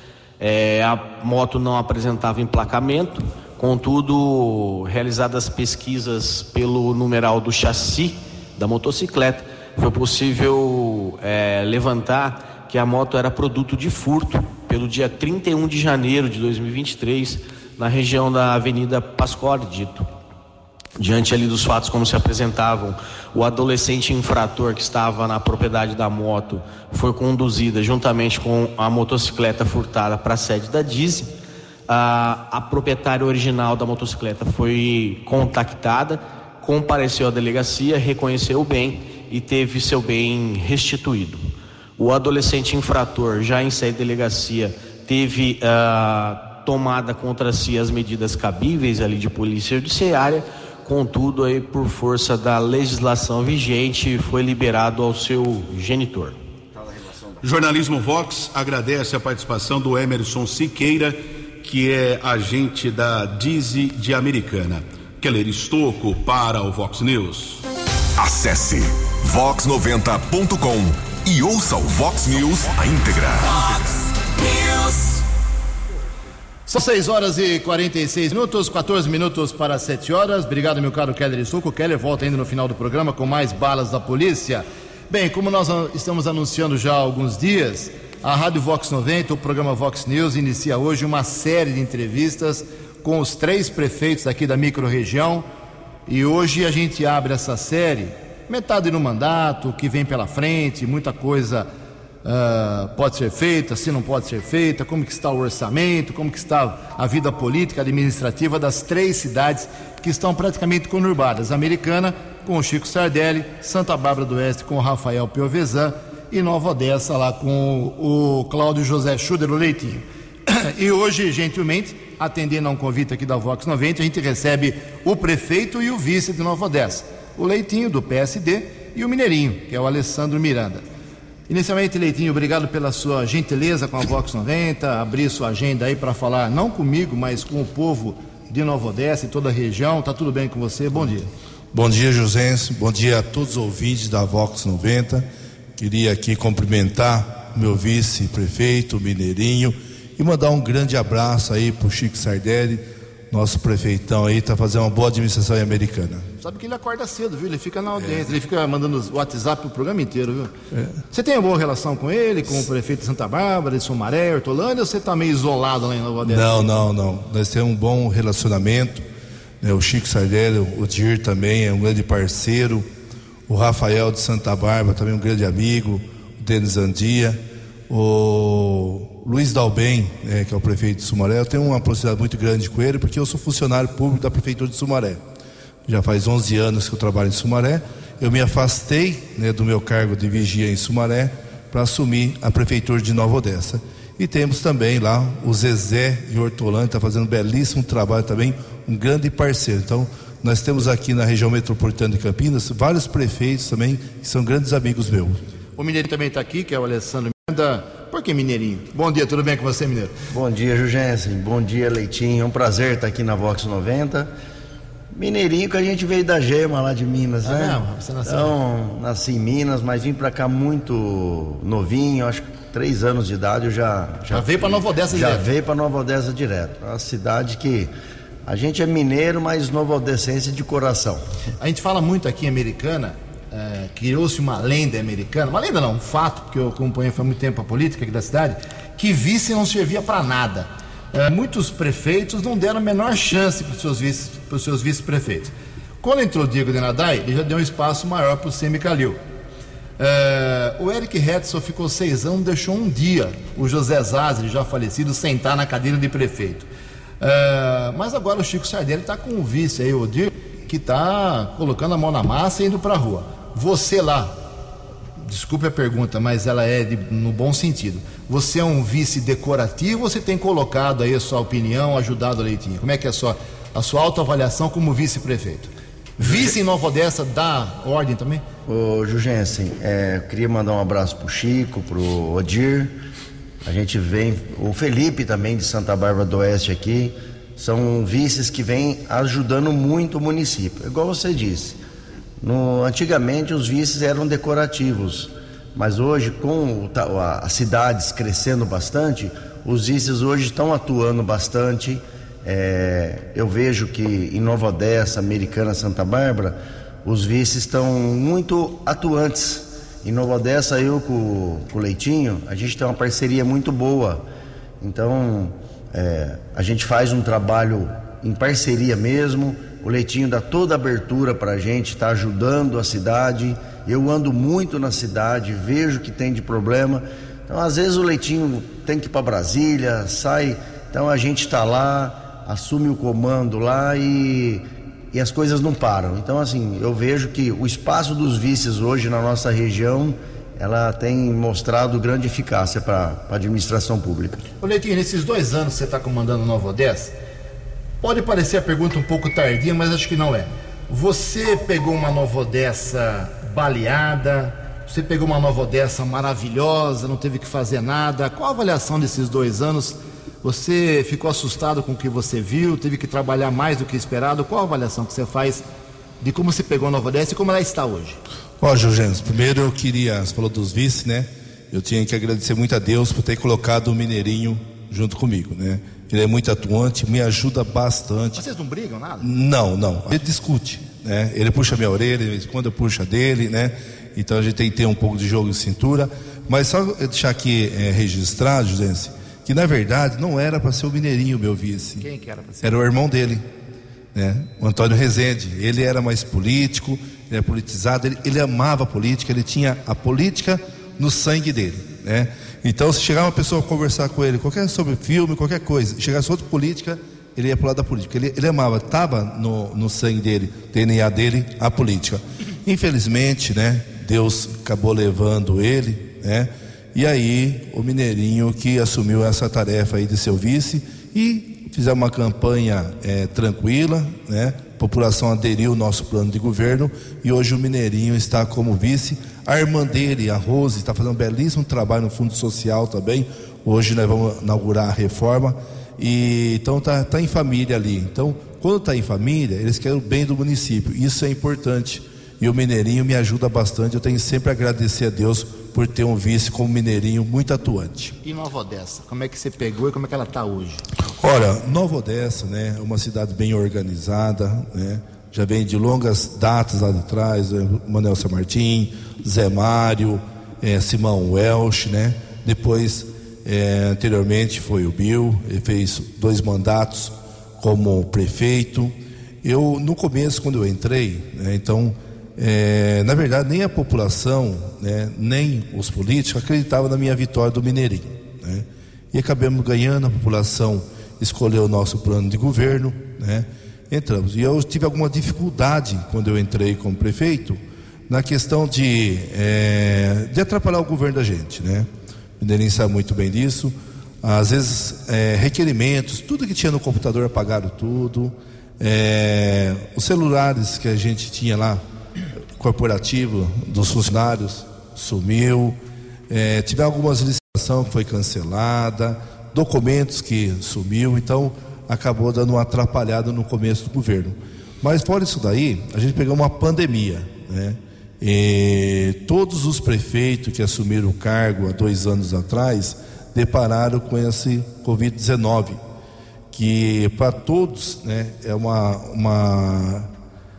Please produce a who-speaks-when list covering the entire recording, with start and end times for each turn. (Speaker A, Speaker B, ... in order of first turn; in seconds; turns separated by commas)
Speaker A: 0.4-20.1, Speaker A: 21.0-31.3, Speaker A: 31.9-56.4, Speaker B: 57.4-67.6, Speaker C: 68.2-73.9, Speaker D: 76.7-95.5, Speaker D: 96.1-101.7, Speaker D: 102.2-130.8, Speaker D: 131.5-141.3, Speaker E: 141.7-156.3, Speaker D: 156.4-160.5, Speaker D: 161.1-166.7, Speaker E: 166.2-169.1, Speaker E: 169.6-172.9, Speaker E: 173.5-185.2, Speaker E: 185.9-205.4, Speaker D: 205.8-210.2, Speaker F: 210.3-214.3, Speaker F: 215.1-227.9, Speaker D: 217.4-218.6, Speaker D: 224.3-225.5, Speaker F: 228.5-231.3, Speaker D: 231.6-249.2, Speaker D: 250.0-256.7, Speaker D: 257.2-264.4, Speaker D: 265.2-278.4, Speaker F: 278.7-282.9, Speaker F: 283.6-291.8, Speaker F: 292.4-314.2, Speaker F: 314.8-344.4, Speaker D: 344.6-347.1, Speaker D: 348.0-365.6, Speaker D: 366.2-368.2, Speaker E: 368.6-378.4, Speaker D: 378.4-379.3, Speaker E: 379.2-392.1, Speaker D: 392.0-392.8, Speaker E: 392.6-393.5, Speaker E: 394.1-448.2, Speaker D: 448.2-450.9, Speaker E: 451.2-491.9, Speaker E: 492.4-501.8, Speaker E: 502.6-525.8, Speaker E: 526.5-530.1